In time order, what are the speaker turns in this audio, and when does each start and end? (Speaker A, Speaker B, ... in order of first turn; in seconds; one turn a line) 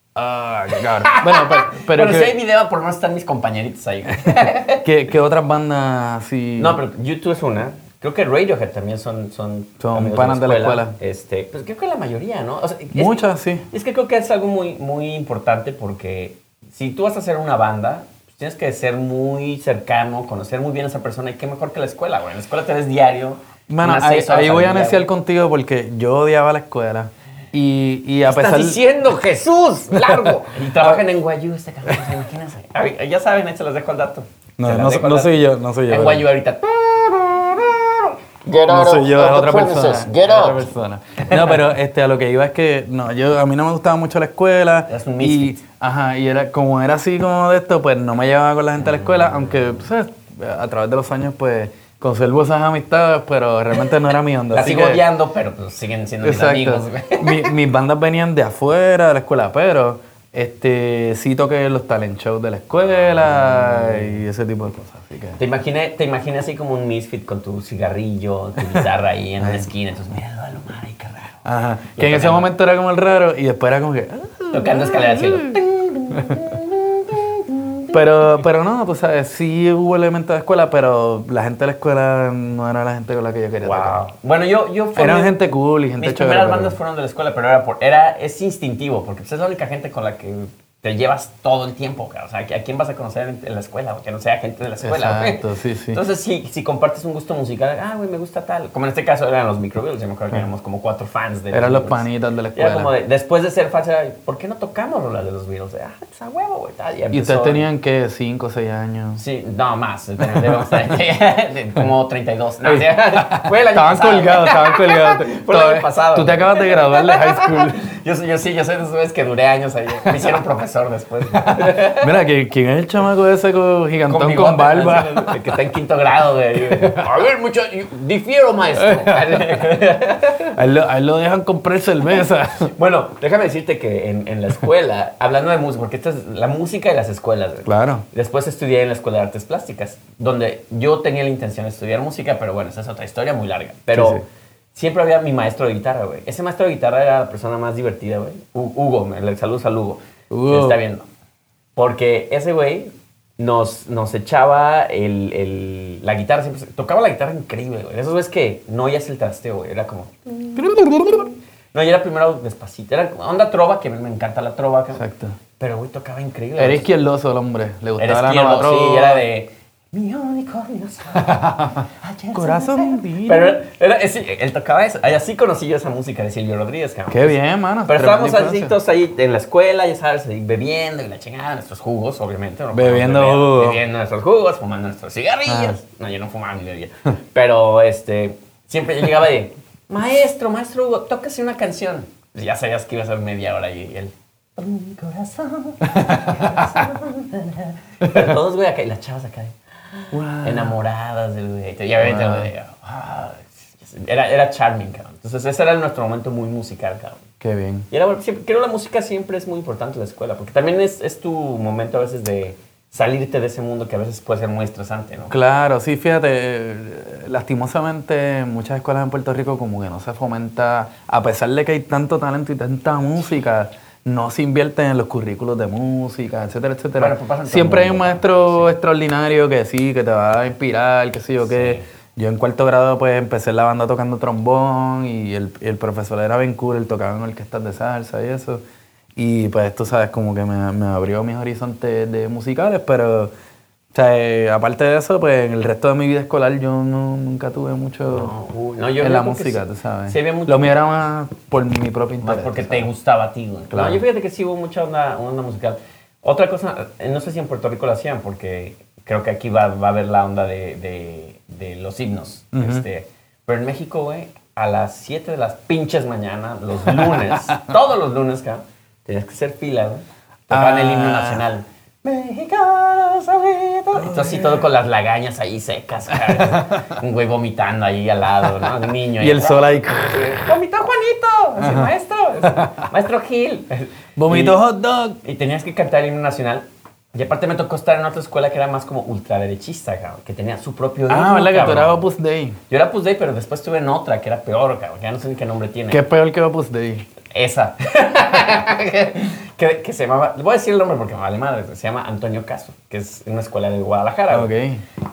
Speaker A: 0.1-2.4
Speaker B: 1.0-4.8
Speaker A: 4.2-6.8
Speaker B: 6.6-25.1
Speaker A: 9.8-10.9
Speaker A: 12.9-13.7
Speaker A: 23.7-28.8
Speaker B: 28.2-41.6
Speaker A: 29.9-31.0
Speaker A: 34.6-36.2
Speaker A: 38.7-55.0
Speaker B: 44.9-45.6
Speaker B: 48.9-49.6
Speaker B: 54.5-57.5
Speaker A: 56.2-65.4
Speaker B: 62.9-64.2
Speaker B: 65.4-71.4
Speaker A: 69.4-69.7
Speaker A: 71.4-75.6
Speaker B: 72.0-72.5
Speaker B: 74.5-78.0
Speaker A: 77.9-84.1
Speaker B: 83.6-85.4
Speaker A: 85.0-86.8
Speaker B: 86.0-107.7
Speaker A: 94.8-96.0
Speaker A: 101.5-102.9
Speaker A: 107.1-109.2
Speaker B: 109.2-122.1
Speaker A: 110.2-110.7
Speaker A: 112.6-117.8
Speaker A: 121.4-125.4
Speaker B: 124.1-130.6
Speaker A: 126.6-127.1
Speaker A: 128.8-129.8
Speaker A: 130.5-132.7
Speaker B: 132.7-151.1
Speaker A: 137.6-138.0
Speaker A: 143.9-144.2
Speaker A: 150.3-150.8
Speaker B: 151.8-165.0
Speaker A: 160.6-161.3
Speaker A: 164.9-165.4
Speaker B: 165.6-166.9
Speaker A: 166.6-169.2
Speaker B: 168.0-207.2
Speaker A: 171.2-173.6
Speaker A: 177.1-178.8
Speaker A: 182.7-183.8
Speaker A: 185.5-185.7
Speaker A: 195.9-196.6
Speaker A: 198.0-198.3
Speaker A: 200.1-200.7
Speaker A: 202.0-202.5
Speaker A: 207.4-207.9
Speaker B: 207.9-215.3
Speaker A: 215.3-238.6
Speaker B: 226.9-228.7
Speaker B: 231.4-231.8
Speaker A: 239.2-243.3
Speaker A: 243.9-248.3
Speaker B: 248.1-250.7
Speaker A: 249.0-252.9
Speaker B: 252.2-284.6
Speaker A: 253.7-254.0
Speaker A: 262.5-262.9
Speaker A: 270.5-271.4
Speaker A: 274.0-274.6
Speaker A: 276.1-276.8
Speaker A: 278.6-280.4
Speaker A: 281.6-281.9
Speaker A: 282.4-282.7
Speaker A: 284.2-285.2
Speaker B: 285.2-292.1
Speaker A: 291.1-292.6
Speaker B: 292.7-296.0
Speaker A: 295.9-297.0
Speaker B: 297.3-304.5
Speaker A: 304.3-304.8